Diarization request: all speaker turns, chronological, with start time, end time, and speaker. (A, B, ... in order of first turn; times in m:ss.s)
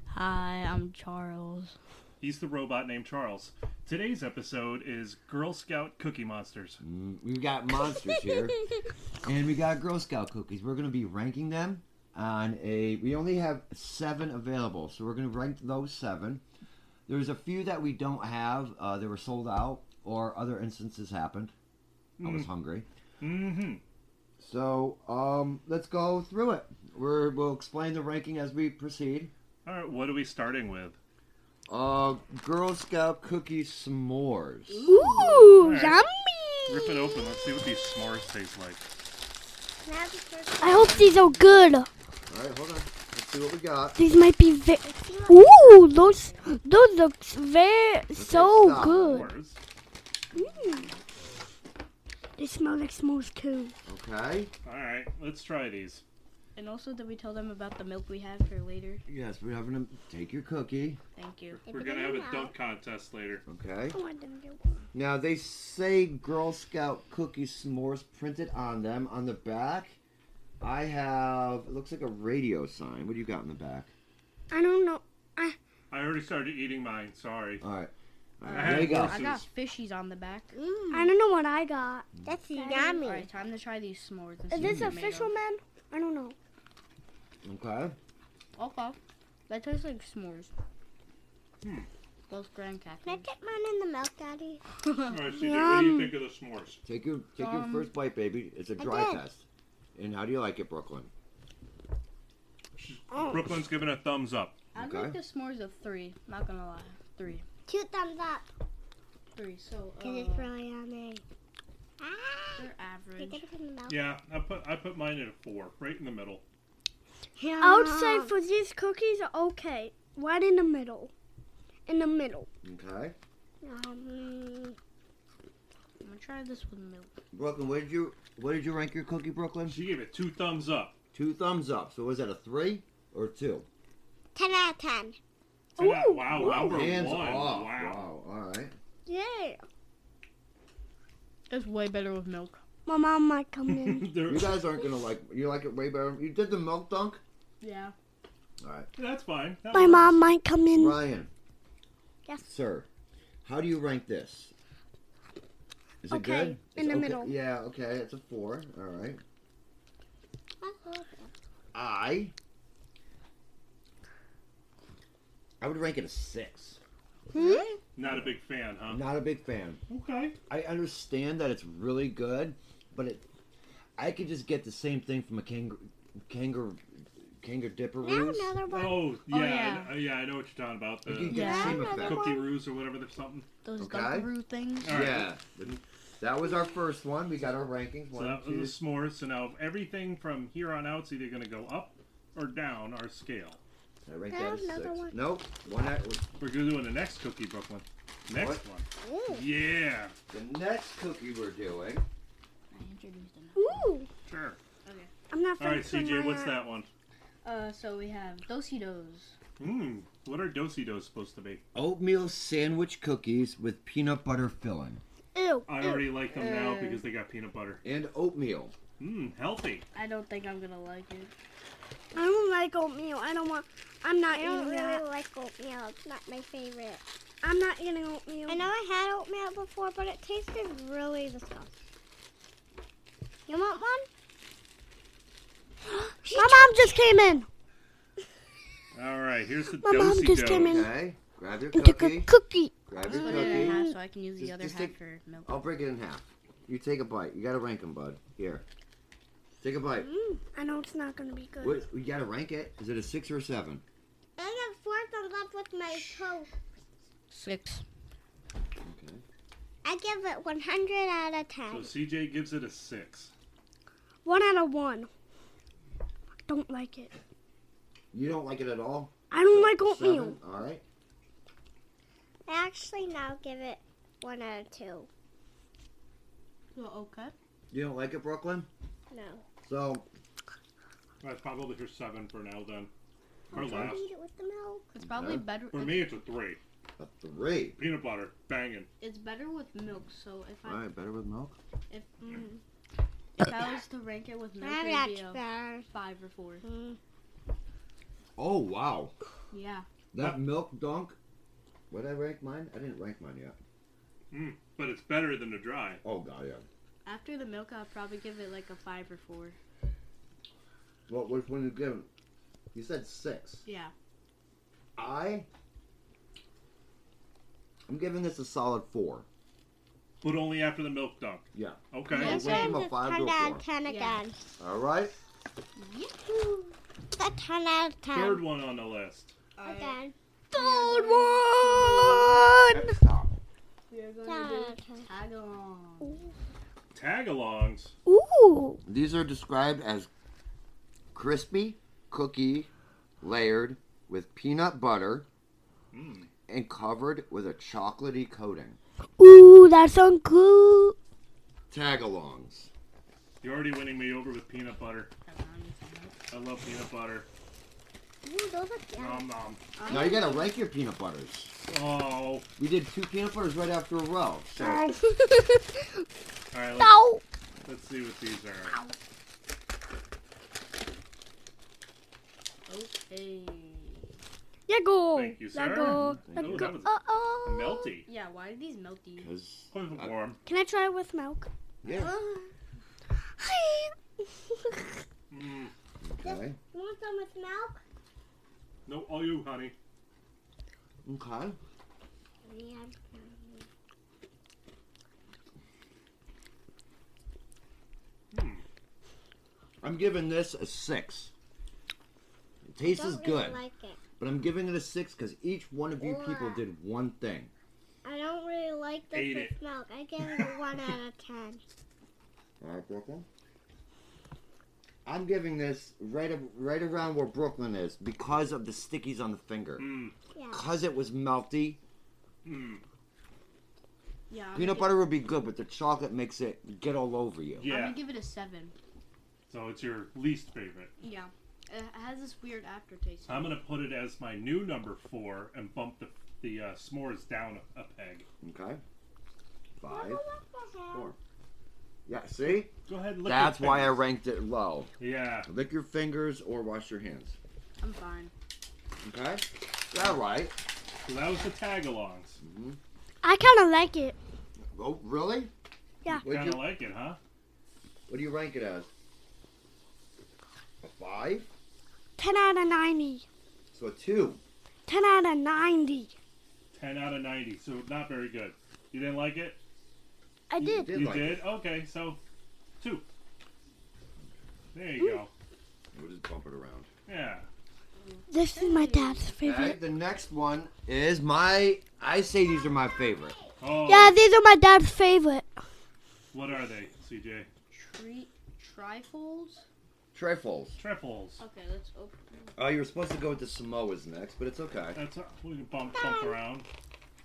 0:00.1-0:01.7 A
0:00.6-0:00.9 B
0:02.2-0:06.8 C
0:06.8-0:08.6 D
0:09.2-0:16.4 D
0:17.1-0:21.5 D
0:22.2-0:22.5 C
0:22.2-0:22.9 D
0:23.2-0:23.8 C
0:24.4-0:29.3 D
0:29.6-0:31.0 C
0:31.7-0:34.9 D
0:34.7-0:35.6 A
0:34.9-0:37.2 B
0:35.6-0:36.0 C
0:36.7-0:38.8 C
0:39.8-0:41.0 E
0:40.6-0:41.9 B
0:40.6-0:41.7 A
0:42.3-0:44.0 D
0:44.0-0:49.3 B
0:44.8-0:46.4 E
0:48.1-0:49.3 D
0:48.8-0:49.6 C
0:50.3-0:50.9 B
0:50.3-0:51.0 A
0:52.4-0:53.7 B
0:53.9-0:54.5 D
0:54.6-0:56.0 C
0:56.6-0:59.0 A
0:59.1-1:01.0 D
1:01.2-1:01.6 A
1:01.6-1:03.4 C
1:01.7-1:02.5 E
1:03.5-1:04.0 D
1:03.9-1:04.8 B
1:04.9-1:10.0 D
1:10.6-1:13.9 D
1:14.5-1:15.6 B
1:15.9-1:17.6 C
1:17.6-1:19.2 D
1:18.4-1:20.5 A
1:18.5-1:19.5 C
1:20.5-1:21.1 E
1:20.9-1:23.0 B
1:22.2-1:23.3 E
1:22.9-1:25.3 A
1:24.5-1:26.4 B
1:24.6-1:25.0 D
1:27.4-1:28.0 D
1:28.6-1:29.0 A
1:29.5-1:30.5 A
1:31.6-1:31.9 C
1:32.3-1:33.3 A
1:33.0-1:34.6 E
1:34.8-1:35.1 A
1:35.1-1:36.8 C
1:35.2-1:36.1 B
1:36.8-1:41.1 D
1:37.4-1:37.9 A
1:38.8-1:39.2 E
1:42.8-1:44.6 C
1:43.1-1:43.4 E
1:44.7-1:47.4 A
1:44.8-1:45.2 D
1:47.7-1:48.4 E
1:49.3-1:50.6 A
1:50.0-1:51.2 E
1:52.0-1:54.0 E
1:52.6-1:53.5 A
1:53.9-1:56.4 C
1:57.4-1:58.3 E
1:57.6-2:01.1 B
2:01.8-2:02.5 B
2:02.6-2:03.2 D
2:03.6-2:04.8 E
2:06.0-2:07.1 A
2:07.3-2:09.8 D
2:09.7-2:10.9 C
2:11.1-2:13.7 D
2:14.3-2:15.2 E
2:15.8-2:18.1 C
2:15.8-2:16.9 B
2:16.3-2:18.8 D
2:19.1-2:19.6 E
2:21.5-2:22.6 A
2:22.8-2:24.1 B
2:23.7-2:24.6 C
2:24.3-2:27.2 D
2:27.6-2:27.9 A
2:28.6-2:28.9 D
2:29.0-2:30.2 C
2:29.7-2:31.0 B
2:30.7-2:31.3 D
2:32.5-2:32.9 D
2:33.4-2:34.5 D
2:36.0-2:39.2 D
2:36.1-2:37.3 B
2:40.6-2:41.3 E
2:41.7-2:42.3 D
2:45.6-2:46.8 D
2:47.3-2:47.7 B
2:47.3-2:47.8 E
2:48.0-2:49.1 C
2:48.1-2:48.4 D
2:48.9-2:49.8 D
2:49.9-2:50.4 C
2:50.5-2:53.2 D
2:54.0-2:58.5 D
2:58.0-2:59.2 E
2:58.7-3:03.5 C
2:59.3-3:00.0 A
3:01.1-3:02.3 D
3:01.3-3:01.9 A
3:01.3-3:02.6 E
3:03.6-3:05.0 A
3:03.8-3:04.3 D
3:04.8-3:05.3 C
3:04.8-3:08.8 D
3:08.1-3:13.6 C
3:14.0-3:16.2 D
3:14.3-3:15.2 E
3:16.4-3:20.1 C
3:18.3-3:18.6 D
3:19.0-3:19.5 E
3:20.3-3:22.0 D
3:22.7-3:23.9 A
3:23.6-3:24.1 B
3:24.3-3:24.6 C
3:24.8-3:25.1 A
3:25.3-3:26.6 B
3:25.6-3:26.9 C
3:27.4-3:29.4 A
3:29.6-3:31.6 C
3:31.7-3:35.0 D
3:35.3-3:36.6 B
3:35.7-3:37.8 C
3:36.3-3:37.0 A
3:37.8-3:38.8 D
3:39.0-3:39.8 C
3:39.9-3:41.3 A
3:42.2-3:45.0 B
3:44.3-3:47.0 E
3:47.4-3:48.6 B
3:48.5-3:51.7 E
3:53.5-3:54.1 E
3:55.9-3:57.5 B
3:56.2-3:57.0 E
3:58.9-4:00.9 C
3:59.8-4:00.9 B
4:00.6-4:02.3 D
4:01.7-4:04.0 B
4:02.9-4:03.8 D
4:03.0-4:05.6 A
4:04.4-4:05.0 D
4:05.5-4:08.6 D
4:09.6-4:10.1 D
4:10.0-4:11.8 B
4:11.6-4:13.8 D
4:14.4-4:16.5 E
4:17.3-4:17.8 A
4:18.8-4:19.2 D
4:19.8-4:21.9 E
4:21.7-4:23.3 C
4:24.2-4:25.1 B
4:26.5-4:27.1 B
4:28.1-4:30.8 D
4:29.3-4:30.4 B
4:32.5-4:35.1 E
4:36.7-4:37.3 A
4:37.7-4:38.7 D
4:39.1-4:39.5 E
4:39.6-4:40.1 D
4:41.2-4:42.9 C
4:43.5-4:44.0 D
4:43.5-4:44.1 C
4:43.5-4:44.9 E
4:44.9-4:46.1 A
4:45.0-4:45.5 D
4:45.7-4:46.6 C
4:47.0-4:47.8 D
4:47.8-4:48.9 C
4:49.0-4:50.8 A
4:50.6-4:51.6 D
4:51.9-4:52.6 A
4:53.4-4:56.6 A
4:54.6-4:55.9 E
4:56.6-4:57.0 E
4:58.4-4:59.1 D
4:59.5-4:59.9 A
5:00.1-5:01.2 D
5:01.9-5:03.6 D
5:04.3-5:06.0 C
5:06.0-5:06.7 D
5:07.0-5:09.6 A
5:11.1-5:12.1 D
5:12.7-5:13.6 D
5:13.6-5:13.9 A
5:15.0-5:15.5 D
5:17.9-5:19.3 D
5:20.2-5:22.5 C
5:21.5-5:23.6 D
5:22.1-5:22.9 A
5:22.1-5:24.4 E
5:23.8-5:24.2 A
5:24.6-5:25.2 D
5:25.8-5:26.8 A
5:27.2-5:28.4 E
5:28.1-5:29.4 C
5:29.6-5:30.0 A
5:29.6-5:30.1 E
5:30.5-5:32.5 A
5:30.5-5:33.0 B
5:32.7-5:33.4 D
5:33.9-5:36.2 A
5:34.2-5:35.1 E
5:36.9-5:37.9 C
5:38.1-5:38.8 B
5:38.9-5:40.1 D
5:41.1-5:42.7 D
5:43.2-5:45.3 D
5:45.9-5:46.3 C
5:46.5-5:48.8 D
5:49.2-5:51.0 B
5:51.7-5:52.7 D
5:53.4-5:55.1 C
5:55.3-5:56.2 A
5:56.3-5:57.3 C
5:58.2-5:59.3 E
5:59.0-5:59.6 C
5:59.8-6:00.5 A
5:59.9-6:01.6 D
6:01.7-6:02.5 C
6:02.6-6:04.9 D
6:04.6-6:06.0 B
6:06.5-6:07.0 C
6:06.8-6:07.2 B
6:07.6-6:08.8 C
6:12.7-6:14.1 A
6:14.7-6:17.9 B
6:15.1-6:18.1 C
6:15.8-6:16.7 D
6:18.1-6:19.3 A
6:19.2-6:20.1 D
6:19.7-6:20.4 C
6:20.4-6:21.5 B
6:21.8-6:22.1 D
6:21.9-6:22.5 E
6:23.4-6:23.9 B
6:25.3-6:25.7 C
6:26.0-6:26.6 D
6:26.2-6:27.8 E
6:28.9-6:29.8 C
6:31.0-6:31.6 D
6:32.4-6:33.6 E
6:38.3-6:38.6 C
6:39.8-6:41.3 D
6:42.6-6:43.6 D
6:42.8-6:44.0 E
6:44.2-6:47.5 D
6:46.0-6:46.6 E
6:48.0-6:51.6 E
6:49.1-6:49.6 C
6:52.6-6:53.3 D
6:55.0-7:01.8 D
6:59.8-7:00.2 C
7:00.4-7:00.6 E
7:02.4-7:02.8 C
7:04.3-7:05.0 A
7:04.5-7:07.7 D
7:07.6-7:08.1 C
7:07.6-7:08.7 A
7:09.5-7:10.9 C
7:11.0-7:13.6 A
7:13.3-7:18.3 C
7:18.4-7:18.8 D
7:19.8-7:20.2 D
7:19.8-7:21.1 E
7:22.1-7:22.7 D
7:22.9-7:24.1 C
7:23.2-7:24.9 D
7:25.0-7:25.5 C
7:25.5-7:27.4 D
7:27.8-7:28.3 A
7:29.0-7:30.6 D
7:31.0-7:32.4 C
7:32.4-7:32.8 D
7:33.2-7:34.2 B
7:34.7-7:35.5 D
7:36.1-7:36.7 D
7:36.1-7:37.2 C
7:38.1-7:38.9 D
7:40.8-7:41.5 D
7:42.2-7:43.3 B
7:43.7-7:44.4 D
7:44.9-7:46.2 B
7:46.7-7:49.6 C
7:50.5-7:51.0 B
7:50.6-7:51.4 D
7:50.7-7:52.2 C
7:52.8-7:53.0 C
7:54.7-7:55.3 C
7:55.9-7:56.9 D
7:57.1-7:57.5 C
7:58.0-7:59.3 A
7:58.3-7:59.8 B
7:59.4-8:03.4 D
8:03.6-8:04.2 C
8:03.9-8:05.5 B
8:06.3-8:07.5 C
8:07.7-8:09.7 A
8:10.1-8:10.8 D
8:10.8-8:11.4 C
8:11.4-8:12.5 A
8:12.6-8:15.0 D
8:14.9-8:16.7 C
8:16.0-8:16.3 E